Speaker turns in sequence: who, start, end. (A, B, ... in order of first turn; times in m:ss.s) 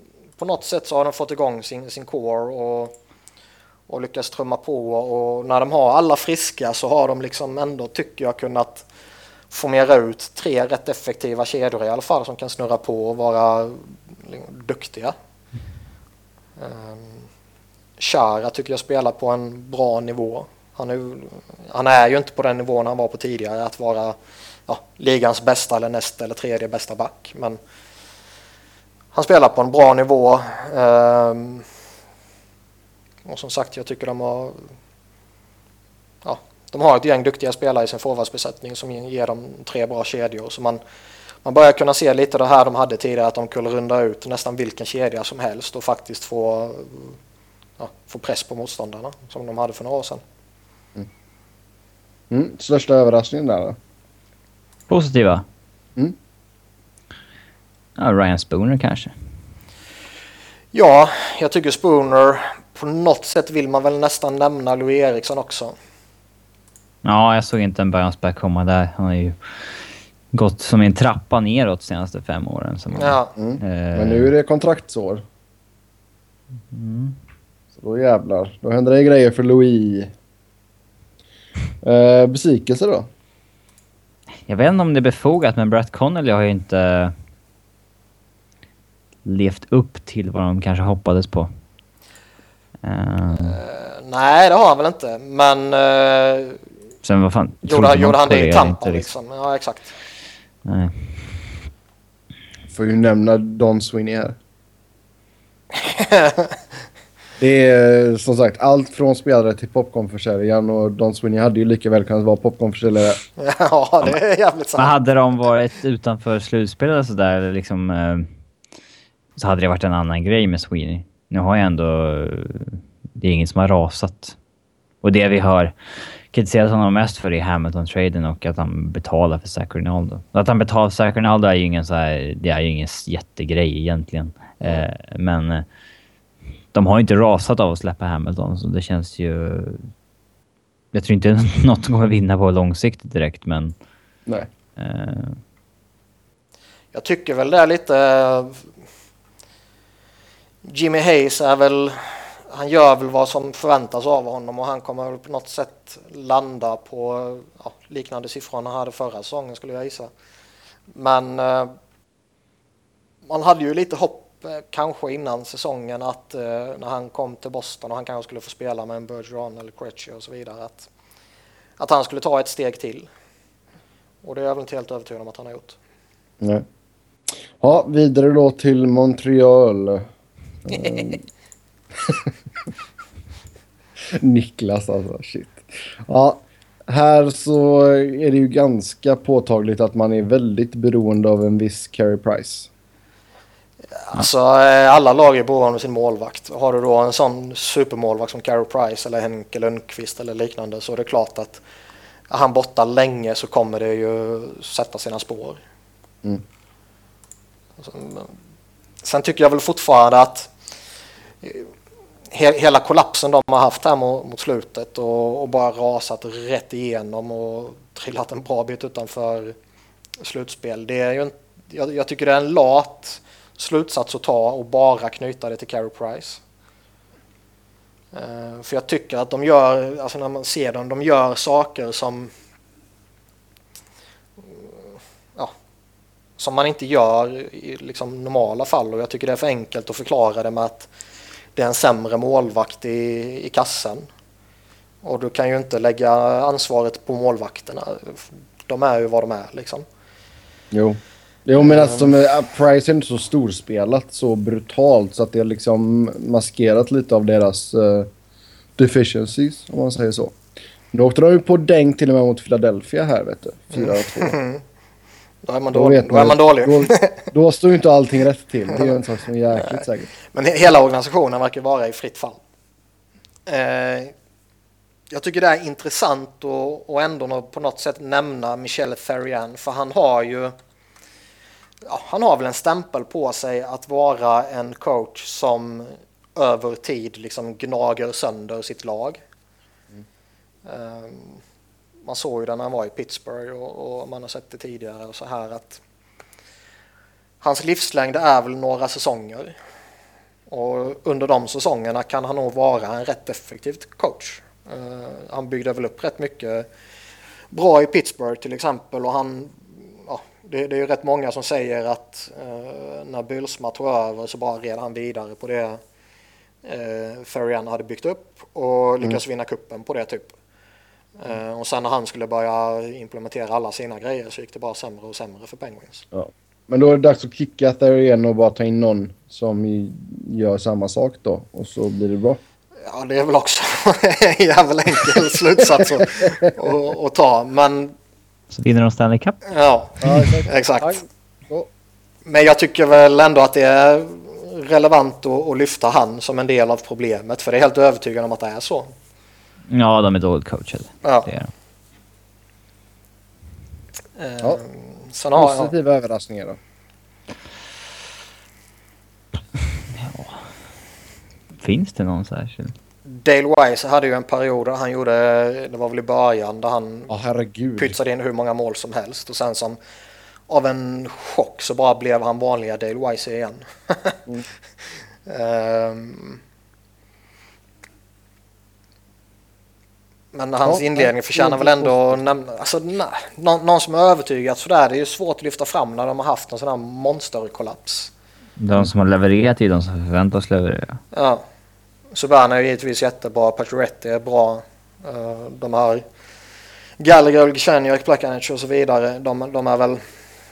0:00.4-0:02.9 A
0:03.9-0:08.8 A
0:09.5-0:15.1 A
0:16.6-0:17.2 A
0:18.0-0:27.6 A
0:29.1-0:31.7 A
0:33.2-0:34.7 A
0:36.2-0:40.8 A
0:41.4-0:47.2 A
0:47.8-0:50.2 A
0:52.3-0:53.8 B
0:54.9-0:55.4 C
0:58.0-0:59.1 C
1:00.7-1:05.7 A
1:07.0-1:14.3 C
1:12.9-1:13.3 A
1:13.4-1:15.2 B
1:16.7-1:17.2 C
1:17.8-1:20.1 B
1:21.8-1:23.1 B
1:24.5-1:27.1 C
1:29.2-1:31.5 C
1:32.8-1:33.6 C
1:33.4-1:36.6 A
1:37.0-1:39.1 C
1:37.6-1:39.9 A
1:40.6-1:41.5 C
1:42.7-1:44.4 B
1:45.7-1:46.6 A
1:47.4-1:53.2 B
1:53.4-1:54.9 A
1:54.8-1:58.3 C
1:59.4-2:04.4 C
2:05.0-2:05.7 C
2:06.3-2:15.6 C
2:16.7-2:19.9 C
2:20.9-2:23.7 C
2:24.8-2:25.4 C
2:26.9-2:28.6 A
2:30.6-2:40.1 A
2:40.9-2:41.7 A
2:43.2-2:50.9 A
2:51.8-2:53.1 A
2:54.2-2:55.8 A
2:57.6-3:00.1 B
3:00.6-3:01.2 B
3:04.1-3:12.7 B
3:14.0-3:21.6 A
3:22.3-3:25.6 A
3:27.8-3:28.3 A
3:29.0-3:30.5 A
3:31.4-3:31.7 A
3:32.3-3:39.6 A
3:40.2-3:46.4 A
3:48.1-3:52.3 A
3:56.4-4:00.9 A
4:01.5-4:04.1 A
4:05.0-4:09.8 A
4:10.7-4:18.1 B
4:11.6-4:12.1 A
4:18.8-4:20.4 B
4:20.9-4:24.4 B
4:23.7-4:24.6 A
4:25.4-4:27.3 A
4:25.7-4:30.1 B
4:28.7-4:29.0 A
4:29.5-4:32.4 A
4:33.4-4:34.1 A
4:35.1-4:40.5 A
4:41.8-4:49.2 A
4:50.6-4:51.4 A
4:52.0-4:55.8 A
4:57.4-4:59.6 A
5:00.5-5:06.7 A
5:07.5-5:15.8 A
5:16.6-5:20.3 A
5:21.2-5:26.0 A
5:26.1-5:32.4 B
5:32.8-5:37.9 A
5:35.8-5:36.3 B
5:38.5-5:39.4 C
5:39.5-5:41.0 A
5:40.0-5:41.7 B
5:42.2-5:48.9 A
5:49.7-5:51.5 C
5:51.0-5:51.3 A
5:54.2-5:55.7 A
5:55.3-5:56.6 B
5:59.9-6:00.4 C
6:01.6-6:02.7 C
6:03.1-6:07.1 A
6:07.1-6:08.0 B
6:07.8-6:09.8 A
6:10.5-6:14.2 A
6:15.2-6:16.4 A
6:20.3-6:28.1 A
6:20.6-6:22.2 B
6:28.6-6:31.0 C
6:31.1-6:31.4 A
6:32.1-6:36.0 A
6:37.0-6:40.0 A